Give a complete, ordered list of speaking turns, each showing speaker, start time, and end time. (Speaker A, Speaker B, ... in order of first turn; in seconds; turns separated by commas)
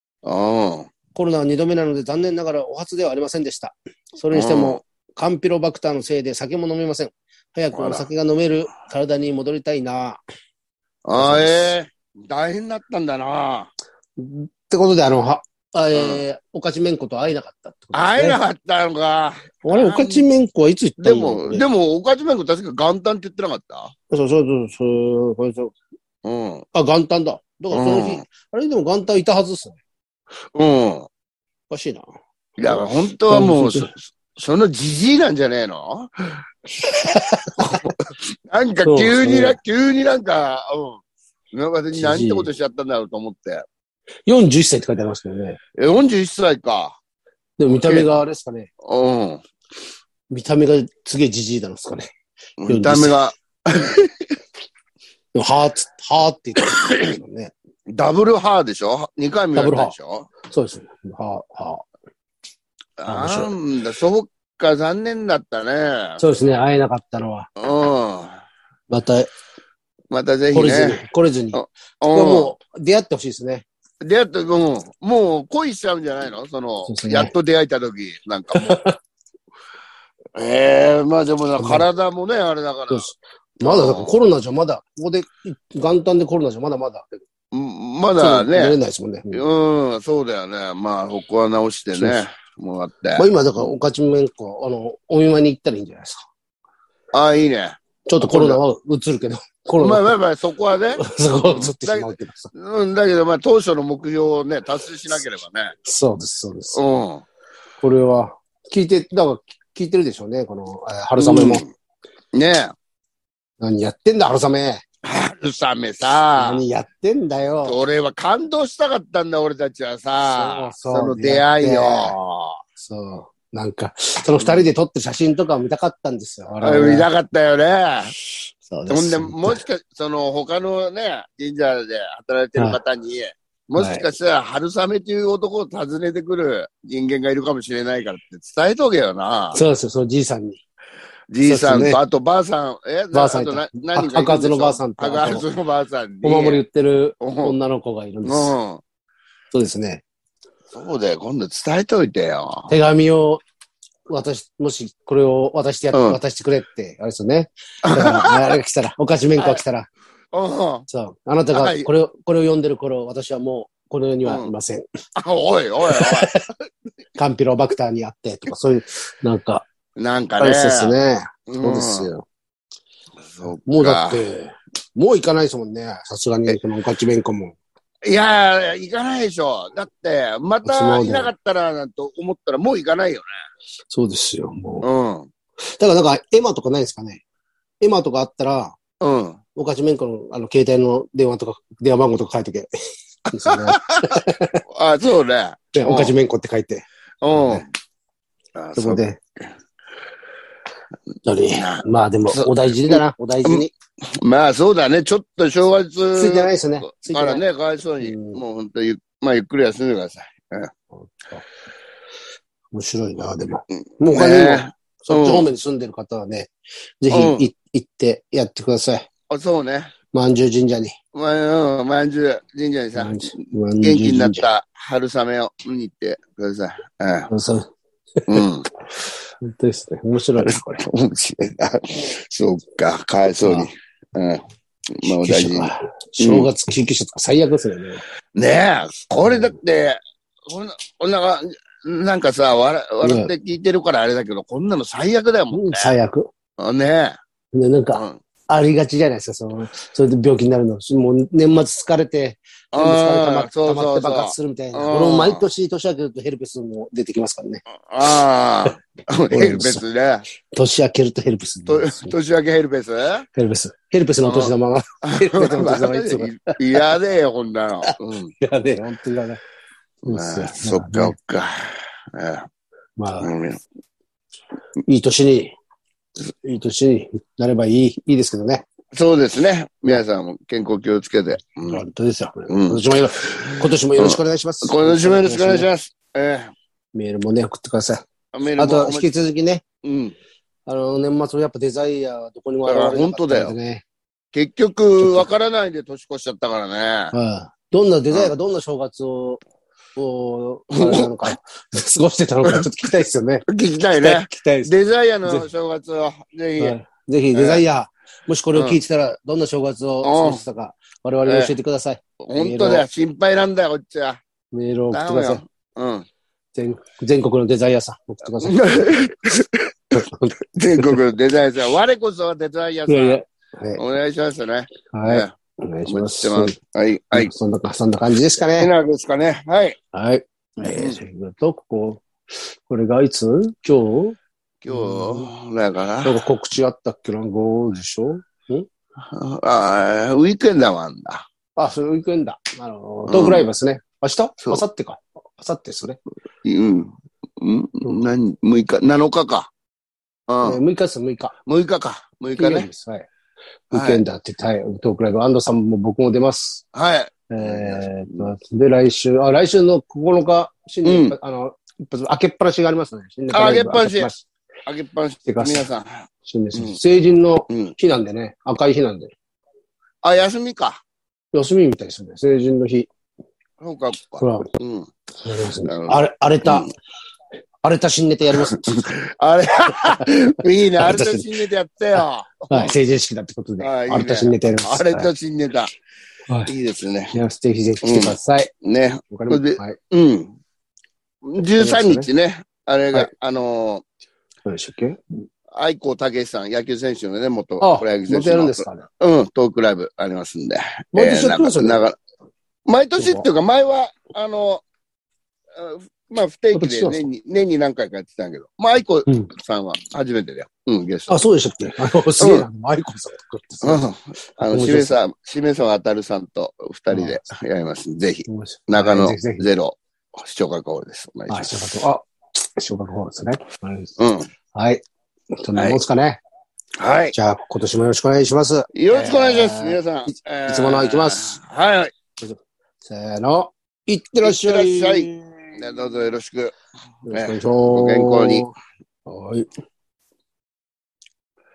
Speaker A: 0.2-0.9, Speaker B: 1.1-10.2, Speaker A: 4.3-4.8, Speaker A: 7.7-8.1, Speaker A: 11.1-13.7, Speaker B: 11.2-11.8, Speaker B: 14.2-18.4, Speaker A: 15.9-16.2, Speaker A: 17.9-20.3, Speaker B: 19.6-21.7, Speaker A: 21.0-23.9, Speaker B: 24.1-25.8, Speaker A: 26.2-26.6, Speaker B: 26.7-29.8, Speaker A: 27.7-28.2, Speaker A: 30.6-31.1, Speaker B: 31.7-32.0, Speaker A: 32.6-36.4, Speaker B: 32.6-33.9, Speaker B: 36.8-37.9, Speaker A: 37.6-41.0, Speaker B: 38.9-39.6, Speaker A: 41.5-43.6, Speaker B: 41.9-42.5, Speaker B: 44.3-45.6, Speaker A: 45.8-47.0, Speaker B: 47.6-48.7, Speaker A: 47.7-48.1, Speaker A: 48.8-49.4, Speaker B: 50.3-52.1, Speaker A: 52.6-54.3, Speaker B: 52.7-53.2, Speaker B: 55.3-57.5, Speaker A: 57.9-60.3, Speaker B: 59.5-61.9, Speaker A: 63.0-66.2, Speaker B: 63.1-63.5, Speaker B: 66.2-67.5, Speaker A: 67.6-68.4, Speaker B: 68.9-69.3, Speaker A: 70.1-71.0, Speaker B: 70.5-73.7, Speaker A: 71.5-72.5, Speaker A: 74.0-78.8, Speaker B: 76.9-77.3, Speaker B: 78.5-79.0, Speaker A: 80.4-83.1, Speaker B: 81.6-81.9, Speaker B: 82.9-87.2, Speaker A: 83.6-84.1, Speaker A: 87.5-88.8, Speaker B: 88.2-89.4, Speaker A: 89.3-93.3, Speaker B: 91.9-92.2, Speaker B: 93.2-96.2, Speaker A: 97.1-98.6, Speaker B: 98.0-100.2, Speaker A: 99.8-105.7, Speaker B: 101.0-102.5, Speaker B: 105.8-106.8, Speaker A: 106.7-107.2, Speaker B: 107.8-111.7, Speaker A: 111.2-111.7, Speaker A: 112.3-112.7, Speaker B: 113.6-114.8, Speaker A: 115.0-116.6, Speaker B: 116.4-117.8, Speaker A: 117.7-122.6, Speaker B: 120.2-122.2, Speaker B: 122.8-127.1, Speaker A: 124.4-124.7, Speaker A: 126.6-128.1, Speaker B: 128.7-129.6, Speaker A: 128.9-139.6, Speaker B: 133.8-134.1, Speaker B: 139.5-140.6, Speaker A: 141.3-146.6, Speaker B: 141.4-142.0, Speaker B: 143.1-145.4, Speaker B: 146.2-148.5, Speaker A: 147.2-147.6, Speaker A: 148.3-148.8, Speaker B: 149.5-150.0, Speaker A: 150.7-152.7, Speaker B: 152.7-153.4, Speaker B: 154.1-159.9, Speaker A: 155.9-156.2, Speaker A: 157.8-158.6, Speaker A: 160.3-160.8, Speaker B: 160.9-164.9, Speaker A: 161.5-161.9, Speaker A: 164.2-164.5, Speaker A: 165.2-166.3, Speaker B: 165.8-166.4, Speaker B: 167.2-169.7, Speaker A: 170.0-170.9, Speaker B: 170.4-172.2, Speaker A: 171.5-172.1, Speaker A: 173.3-174.2, Speaker B: 173.7-177.6, Speaker A: 178.0-183.3, Speaker B: 180.6-181.3, Speaker B: 183.9-184.9, Speaker A: 184.8-185.3, Speaker B: 185.8-187.2, Speaker B: 187.8-188.8, Speaker A: 189.0-189.4, Speaker B: 189.6-192.7, Speaker B: 193.3-194.6, Speaker A: 193.4-196.2, Speaker B: 195.7-197.7, Speaker A: 197.2-197.7, Speaker A: 198.6-199.0, Speaker B: 198.8-199.2, Speaker B: 201.2-203.7, Speaker A: 201.6-210.7, Speaker B: 206.1-207.4, Speaker B: 208.0-208.4, Speaker B: 210.9-211.4, Speaker B: 212.7-219.1, Speaker A: 214.0-215.5, Speaker A: 217.1-217.5, Speaker A: 219.3-219.9, Speaker B: 220.1-220.9, Speaker A: 221.1-227.3, Speaker B: 222.9-224.4, Speaker B: 227.3-227.7, Speaker A: 228.3-228.7, Speaker B: 229.4-230.8, Speaker A: 230.4-234.4, Speaker B: 233.4-233.7, Speaker A: 234.9-236.5, Speaker B: 235.1-238.0, Speaker A: 238.3-245.9, Speaker B: 239.2-239.5, Speaker B: 243.0-243.3, Speaker B: 245.5-246.3, Speaker A: 246.6-247.2, Speaker B: 247.5-257.6, Speaker A: 247.9-248.2, Speaker A: 252.7-255.5, Speaker A: 257.9-260.2, Speaker B: 259.3-259.8, Speaker B: 260.5-262.2, Speaker A: 261.7-263.3, Speaker B: 263.4-266.9, Speaker A: 264.2-264.5, Speaker A: 265.0-268.3, Speaker B: 267.9-269.4, Speaker B: 270.1-271.1, Speaker A: 270.1-272.5, Speaker B: 273.0-273.3, Speaker A: 273.2-273.6, Speaker B: 274.9-275.5, Speaker B: 276.2-278.7, Speaker A: 278.9-281.8, Speaker B: 281.7-285.7, Speaker A: 282.5-282.8, Speaker A: 283.4-286.5, Speaker B: 286.9-288.0, Speaker A: 288.3-289.1, Speaker B: 288.6-289.6, Speaker A: 289.8-290.2, Speaker B: 290.7-293.8, Speaker A: 292.7-293.6, Speaker A: 294.3-297.1, Speaker B: 295.0-295.3, Speaker B: 297.1-299.4, Speaker B: 300.0-303.5, Speaker A: 300.7-301.3, Speaker A: 303.5-306.8, Speaker B: 304.0-304.7, Speaker B: 306.6-312.9, Speaker A: 307.3-307.6, Speaker A: 308.5-308.8, Speaker A: 310.0-310.4, Speaker A: 311.3-311.5, Speaker A: 312.2-314.2, Speaker B: 314.5-315.4, Speaker A: 314.9-316.1, Speaker B: 316.6-318.9, Speaker A: 318.4-320.0, Speaker B: 319.9-321.0, Speaker A: 320.6-323.2, Speaker B: 322.9-323.9, Speaker A: 323.8-325.3, Speaker B: 324.9-326.6, Speaker A: 325.9-327.3, Speaker B: 327.1-328.7, Speaker A: 328.6-329.8, Speaker B: 329.9-332.1, Speaker A: 330.6-331.0, Speaker B: 332.7-334.2, Speaker A: 334.6-336.2, Speaker B: 334.7-335.3, Speaker B: 336.0-338.7, Speaker A: 339.1-341.2, Speaker B: 341.6-346.0, Speaker A: 343.1-343.4, Speaker A: 346.4-349.5, Speaker A: 350.3-350.6, Speaker B: 350.4-351.4, Speaker A: 351.5-352.7, Speaker B: 352.4-353.1, Speaker B: 353.7-356.6, Speaker A: 353.7-354.0, Speaker A: 356.7-358.3, Speaker B: 357.3-364.2, Speaker A: 360.8-361.1, Speaker A: 363.3-364.1, Speaker A: 364.7-366.8, Speaker B: 365.3-365.7, Speaker B: 366.2-369.1, Speaker A: 367.5-367.7, Speaker A: 370.0-370.8, Speaker B: 371.3-372.9, Speaker A: 373.6-374.9, Speaker B: 374.2-374.5, Speaker B: 375.2-376.7, Speaker A: 375.7-376.7, Speaker B: 377.6-378.8, Speaker A: 378.4-382.7, Speaker B: 379.8-380.1, Speaker B: 380.7-381.3, Speaker B: 382.5-385.1, Speaker A: 383.6-385.7, Speaker A: 386.5-387.1, Speaker B: 387.1-388.5, Speaker A: 387.8-390.4, Speaker B: 389.1-389.8, Speaker A: 391.2-393.8, Speaker B: 391.6-392.1, Speaker B: 394.4-395.0, Speaker A: 395.5-402.0, Speaker B: 397.6-398.9, Speaker B: 400.9-401.8, Speaker A: 402.7-404.6, Speaker B: 403.0-403.3, Speaker A: 405.5-411.1, Speaker B: 406.5-407.1, Speaker B: 411.1-413.8, Speaker A: 412.2-412.5, Speaker A: 413.6-421.7, Speaker B: 414.5-415.0, Speaker B: 416.9-417.2, Speaker B: 418.3-419.5, Speaker B: 421.3-424.0, Speaker A: 424.0-424.3, Speaker B: 424.5-424.8, Speaker B: 425.4-426.2, Speaker A: 426.8-427.1, Speaker B: 427.1-431.4, Speaker A: 428.7-431.9, Speaker B: 432.2-435.5, Speaker A: 434.2-436.6, Speaker B: 437.1-438.5, Speaker A: 437.1-438.5, Speaker B: 439.1-439.5